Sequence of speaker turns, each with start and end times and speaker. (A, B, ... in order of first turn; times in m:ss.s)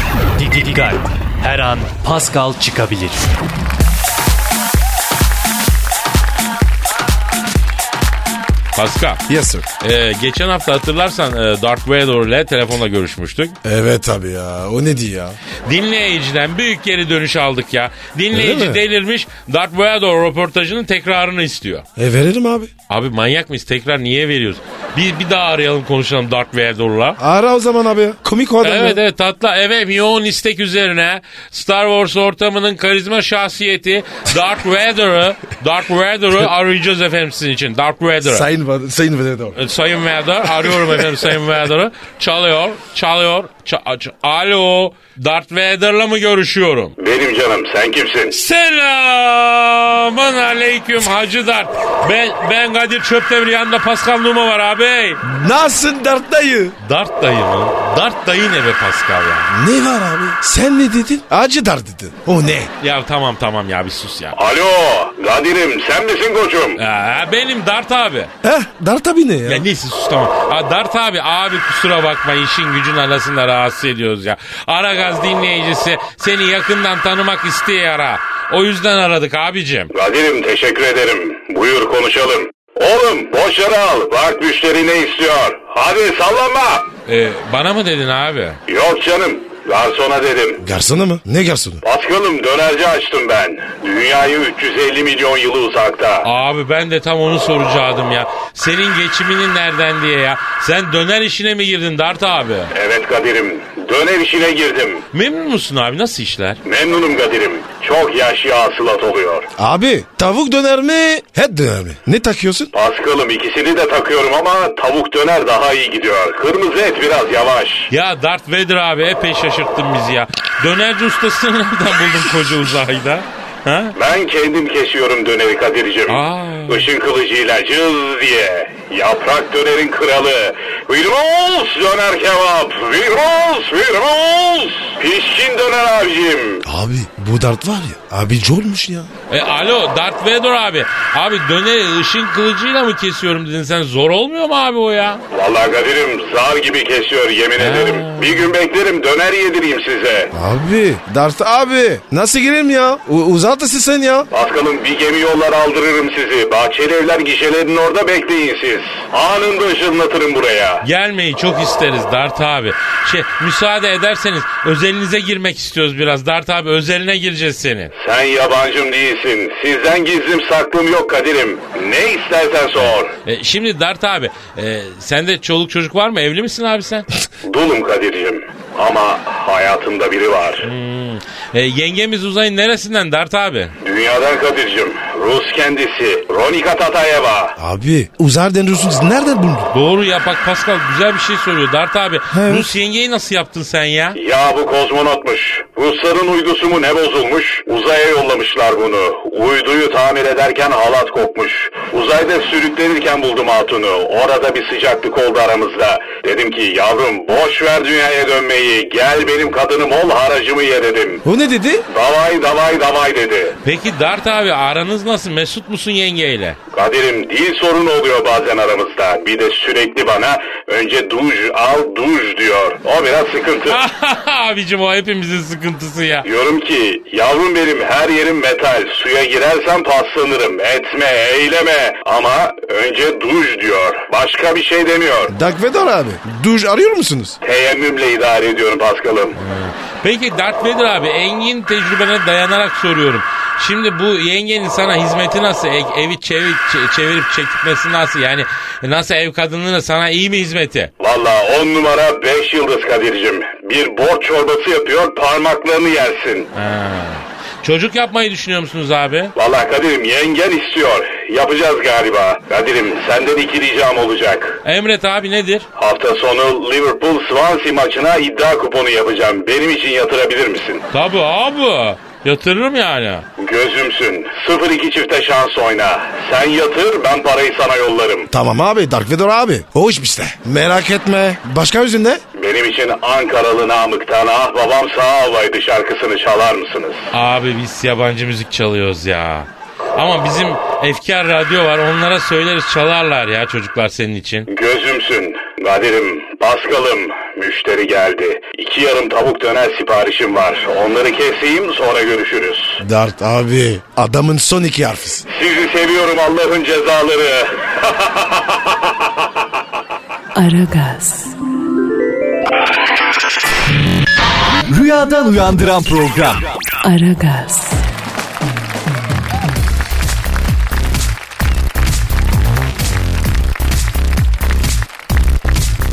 0:00.4-0:03.3 A
0:08.7-0:09.2 B
0:09.3-0:09.7 C
0:09.8-0:13.6 B
0:13.6-0:15.4 C
0:15.6-0:21.8 B
0:18.3-0:18.8 C
0:22.0-0:22.7 C
0:22.9-0:27.2 B
0:27.2-0:29.0 C
0:28.6-0:38.5 B
0:38.2-0:39.6 C
0:39.6-0:46.9 B
0:40.6-0:41.0 C
0:47.0-0:48.3 D
0:48.3-0:55.2 B
0:55.2-0:56.8 C
0:56.8-0:59.5 B
0:59.5-1:02.7 C
1:02.8-1:04.3 B
1:04.3-1:06.8 D
1:06.8-1:08.3 B
1:08.4-1:09.6 C
1:09.4-1:19.9 B
1:19.9-1:26.9 D
1:27.0-1:28.6 B
1:28.7-1:30.6 D
1:30.6-1:31.8 C
1:31.8-1:36.3 D
1:36.2-1:42.7 B
1:42.7-1:45.0 D
1:45.1-1:46.6 B
1:46.6-1:49.5 D
1:49.6-1:52.7 C
1:52.7-1:57.9 D
1:57.9-2:03.9 B
2:04.0-2:16.6 D
2:06.1-2:06.9 B
2:16.6-2:19.1 C
2:19.3-2:25.2 B
2:25.3-2:30.3 D
2:27.6-2:28.5 B
2:30.3-2:34.3 C
2:34.3-2:40.8 D
2:40.8-2:47.9 B
2:48.0-2:53.1 D
2:52.8-2:57.1 B
2:57.4-3:00.7 D
3:00.6-3:03.7 B
3:03.8-3:07.5 D
3:07.6-3:09.7 C
3:09.7-3:14.2 B
3:12.3-3:12.7 C
3:14.2-3:31.2 D
3:31.2-3:31.8 C
3:31.9-3:33.5 D
3:33.6-3:36.6 B
3:36.7-3:43.8 D
3:43.7-3:46.2 B
3:46.2-3:55.3 D
3:55.3-3:57.4 C
3:57.4-3:59.4 D
3:59.4-4:10.9 B
4:11.0-4:16.5 D
4:16.5-4:19.3 B
4:19.4-4:24.6 D
4:24.6-4:25.7 B
4:25.8-4:30.8 D
4:30.9-4:33.2 B
4:33.4-4:38.3 D
4:38.3-4:42.2 C
4:42.4-4:47.0 D
4:47.1-4:54.5 B
4:54.5-5:02.8 D
5:02.8-5:05.2 C
5:05.3-5:08.8 D
5:10.3-5:11.3 E
5:14.7-5:16.5 A
5:16.8-5:17.8 E